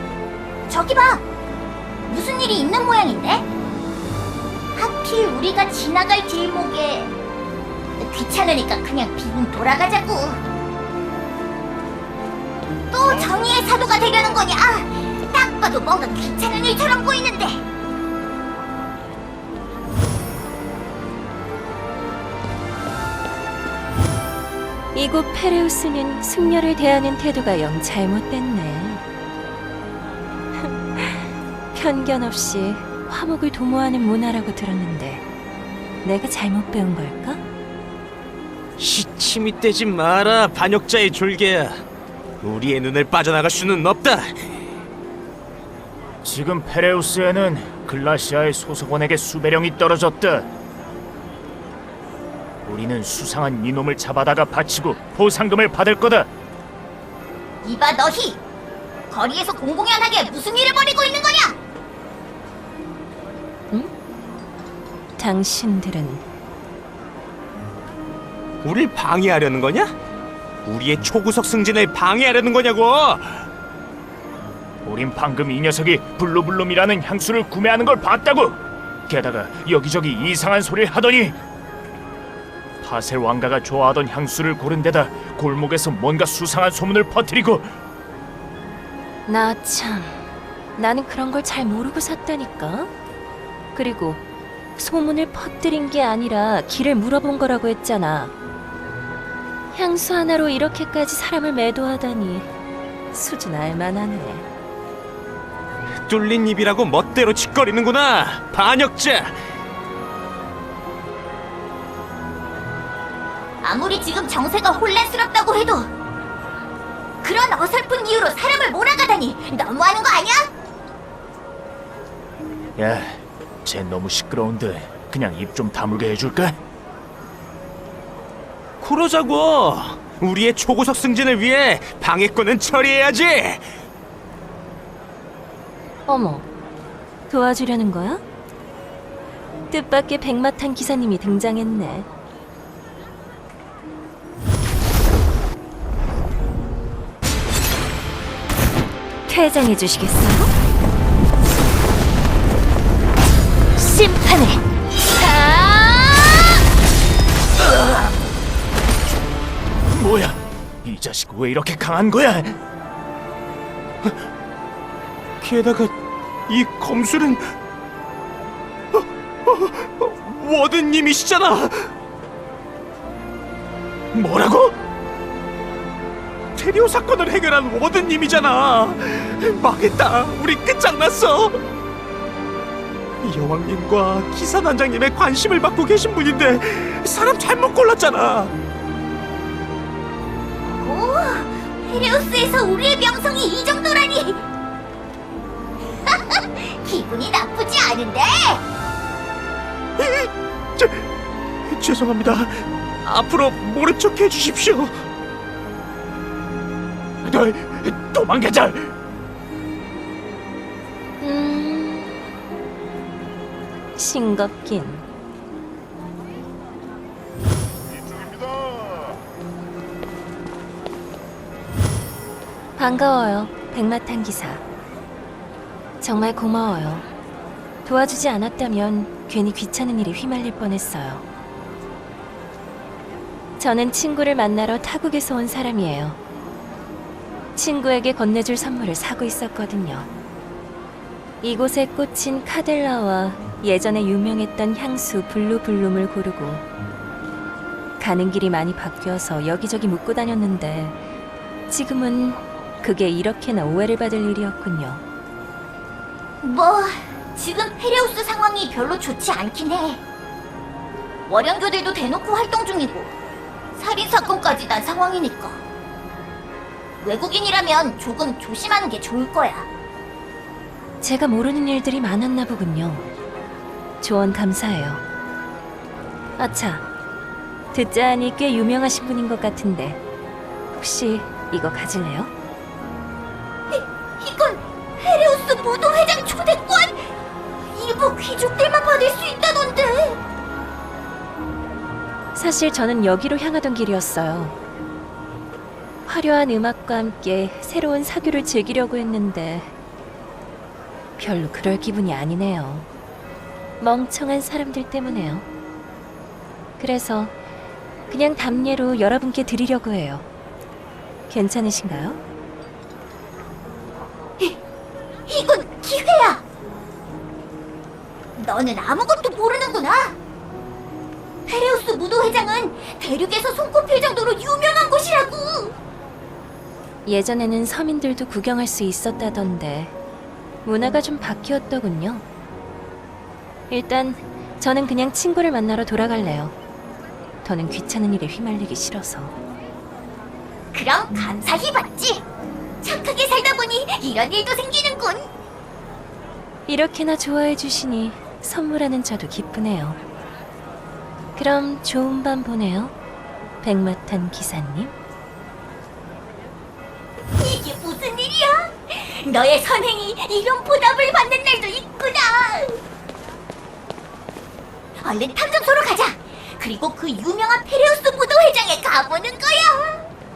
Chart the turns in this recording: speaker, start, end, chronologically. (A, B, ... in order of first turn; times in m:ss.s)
0:00.7-0:01.2 A
0:02.1-0:03.4 A
0:04.8-0:07.1 A
0:08.0-0:10.4 A
0:12.9-0:17.6 A
0:24.9-0:29.0 B
0:30.6-0:35.2 B
0:36.0-0:37.4 B
0:38.8-0:41.8 C
0:42.4-0:44.5 C
0:46.2-0:50.5 D
0:52.6-0:56.3 D
0:57.6-0:58.4 A
0:59.1-1:01.6 A
1:05.2-1:06.2 B
1:08.6-1:09.9 C
1:10.6-1:13.4 C
1:14.8-1:21.4 D
1:22.8-1:27.7 D
1:29.2-1:32.9 B
1:33.7-1:34.2 B
1:34.8-1:38.3 B
1:39.7-1:42.5 B
1:43.1-1:44.5 B
1:46.0-1:49.3 C
1:53.6-1:55.9 A
1:57.2-2:00.5 A
2:02.8-2:06.6 D
2:08.8-2:13.6 C
2:16.1-2:16.5 B
2:17.3-2:18.2 B
2:19.7-2:22.1 B
2:29.3-2:30.5 B
2:33.8-2:34.6 A
2:35.2-2:36.1 B
2:39.9-2:42.6 D
2:45.4-2:45.9 C
2:46.5-2:47.5 C
2:49.0-2:51.9 C
2:54.1-2:54.7 D
2:56.6-3:01.6 C
3:03.2-3:08.5 C
3:10.6-3:14.4 A
3:16.0-3:18.6 A
3:20.0-3:21.0 C
3:21.7-3:25.0 C
3:27.2-3:28.9 D
3:31.2-3:32.3 B
3:34.0-3:35.0 B
3:42.8-3:44.6 B
3:46.0-3:47.1 B
3:47.8-3:51.2 B
3:53.6-3:56.2 B
3:57.5-4:00.1 B
4:01.4-4:06.6 B
4:08.0-4:11.0 B
4:11.7-4:15.0 B
4:16.4-4:20.0 A
4:21.3-4:23.1 A
4:23.8-4:25.6 A
4:27.0-4:29.7 A
4:31.0-4:33.1 B
4:34.0-4:35.0 B
4:36.4-4:36.8 B
4:37.7-4:40.0 B
4:40.7-4:42.3 B
4:43.7-4:47.1 A
4:47.7-4:50.2 A
4:52.3-4:54.6 B
4:56.0-4:59.7 B
5:01.2-5:02.9 B
5:03.8-5:05.4 B
5:06.8-5:07.3 B
5:08.1-5:10.2 B
5:11.3-5:12.2 B
5:15.3-5:16.4 A
5:18.4-5:20.2 A
5:21.5-5:25.8 A
5:27.0-5:29.9 B
5:30.6-5:32.2 B
5:33.7-5:36.5 B
5:37.4-5:39.4 B
5:40.7-5:42.2 A
5:42.8-5:45.3 A
5:46.7-5:50.0 B
5:51.3-5:52.9 B
5:53.6-5:54.9 B
5:57.4-6:02.8 A
6:05.0-6:10.1 A